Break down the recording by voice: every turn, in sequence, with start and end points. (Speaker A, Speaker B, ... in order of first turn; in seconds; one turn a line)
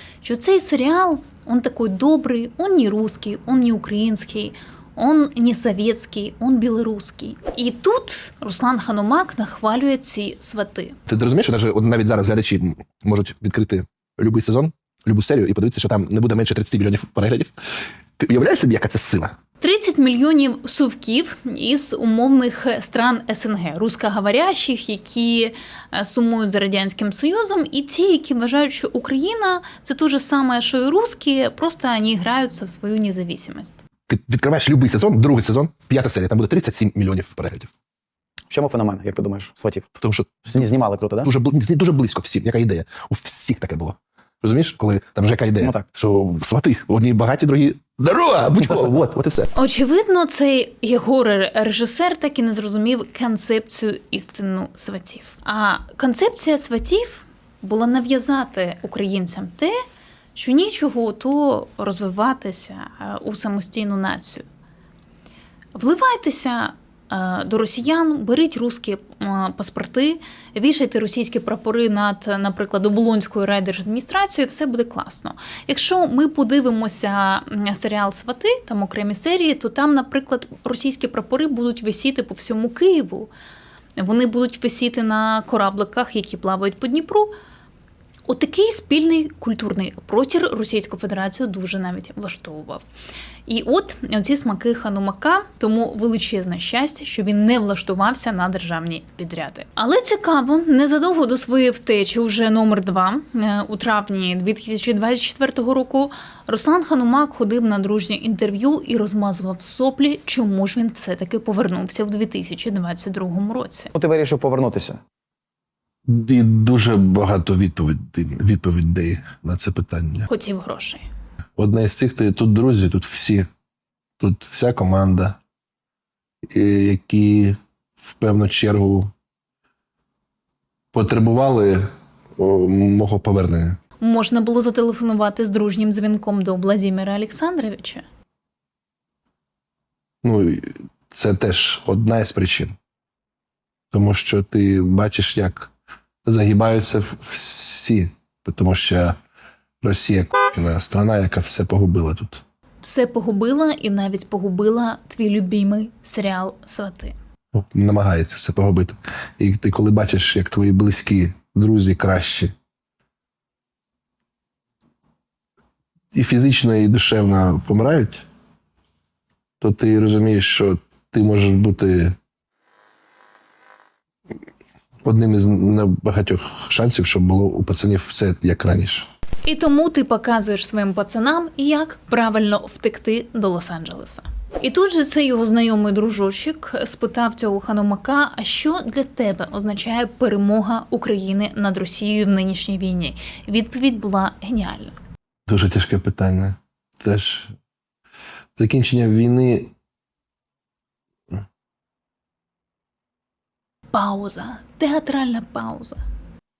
Speaker A: 0.2-11.0
Speaker B: 11.1-17.5
Speaker B: 18.2-19.3
Speaker A: 19.6-33.8
Speaker B: 34.1-37.7
Speaker C: 38.5-39.9
Speaker B: 40.0-40.6
Speaker C: 40.5-41.3
Speaker B: 41.2-49.5
Speaker A: 49.5-59.7
Speaker A: 60.3-64.4
Speaker A: 65.7-83.3
Speaker A: 84.0-87.3
Speaker A: 88.3-92.8
Speaker A: 93.5-113.9
Speaker C: 113.9-115.0
Speaker B: 116.0-120.3
Speaker A: 120.3-121.0
Speaker B: 121.6-123.5
Speaker B: 124.2-125.4
Speaker B: 126.5-129.1
Speaker B: 130.9-133.8
Speaker A: 134.0-138.0
Speaker B: 140.2-142.7
Speaker B: 143.9-145.7
Speaker B: 146.2-149.2
Speaker B: 149.8-152.4
Speaker A: 152.8-157.1
Speaker B: 157.5-162.5
Speaker B: 166.1-168.2
Speaker B: 169.6-172.2
Speaker B: 175.0-179.1
Speaker A: 179.4-194.9
Speaker B: 195.5-197.5
Speaker B: 198.6-199.7
Speaker A: 203.9-206.0